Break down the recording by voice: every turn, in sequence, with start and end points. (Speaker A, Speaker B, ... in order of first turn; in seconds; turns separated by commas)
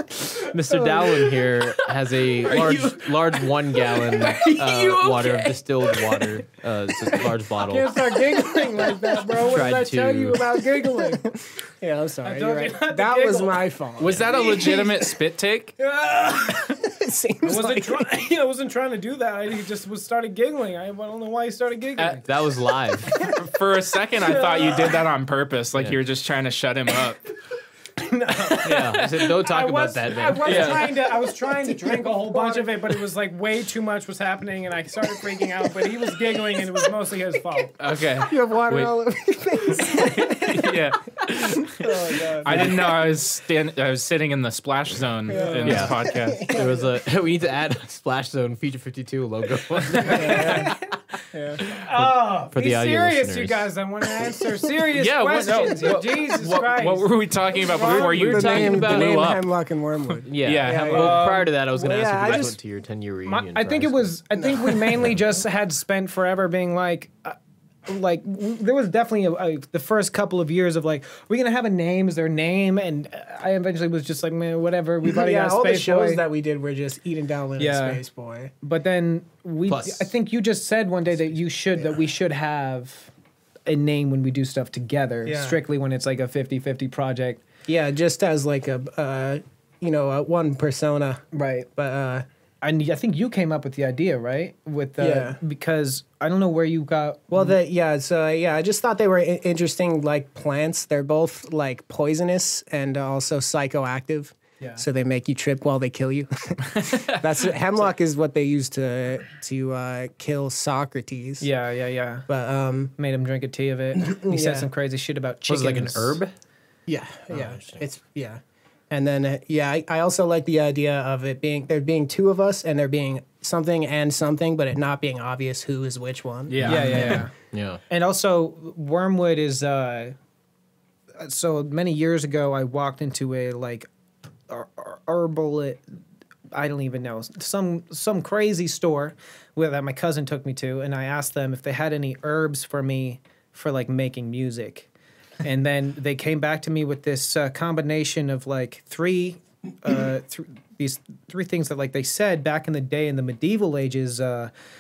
Speaker A: 0.4-8.0, Speaker B: 0.7-1.0, Speaker C: 2.4-6.4, Speaker B: 7.6-11.4, Speaker A: 9.4-10.4, Speaker D: 10.5-15.1, Speaker B: 12.2-13.7, Speaker C: 14.0-15.8, Speaker B: 14.3-14.8, Speaker B: 15.9-16.8, Speaker D: 16.2-18.2, Speaker B: 17.4-22.3, Speaker C: 22.0-22.2, Speaker A: 22.2-23.1, Speaker C: 23.1-27.3, Speaker B: 24.2-25.0, Speaker B: 28.0-37.8, Speaker A: 28.6-30.8, Speaker C: 28.7-29.2, Speaker C: 30.4-30.9, Speaker D: 31.4-32.7, Speaker D: 36.1-36.6, Speaker C: 37.8-39.0, Speaker D: 38.2-40.8, Speaker C: 39.8-46.5, Speaker D: 41.6-43.0, Speaker D: 45.3-47.0, Speaker B: 45.3-45.8, Speaker A: 45.6-50.8, Speaker B: 50.0-50.8, Speaker D: 50.1-50.8, Speaker D: 51.3-51.6, Speaker B: 51.6-58.1, Speaker A: 51.7-53.7, Speaker C: 54.9-59.5, Speaker D: 57.7-62.6, Speaker A: 57.9-59.2, Speaker A: 60.2-64.1, Speaker C: 60.4-61.5, Speaker B: 61.0-61.3, Speaker B: 63.3-76.2, Speaker D: 64.4-65.0, Speaker D: 75.0-78.5, Speaker B: 77.6-78.0, Speaker B: 78.6-83.1, Speaker A: 79.7-80.1, Speaker B: 83.7-87.5, Speaker D: 85.2-85.6, Speaker D: 87.7-92.2, Speaker B: 91.3-91.7, Speaker B: 92.6-97.5, Speaker D: 95.0-95.4, Speaker D: 97.3-111.5, Speaker B: 104.6-104.8, Speaker C: 106.7-107.3, Speaker B: 111.4-112.3, Speaker D: 112.3-112.9, Speaker B: 113.0-116.2, Speaker D: 114.0-114.7, Speaker A: 115.5-116.3, Speaker D: 116.9-127.3, Speaker A: 117.3-117.8, Speaker C: 126.5-127.3, Speaker A: 126.6-127.8, Speaker B: 126.6-127.3, Speaker B: 127.9-130.2, Speaker B: 131.2-133.9, Speaker B: 134.5-135.8, Speaker B: 136.5-144.9, Speaker B: 145.4-154.5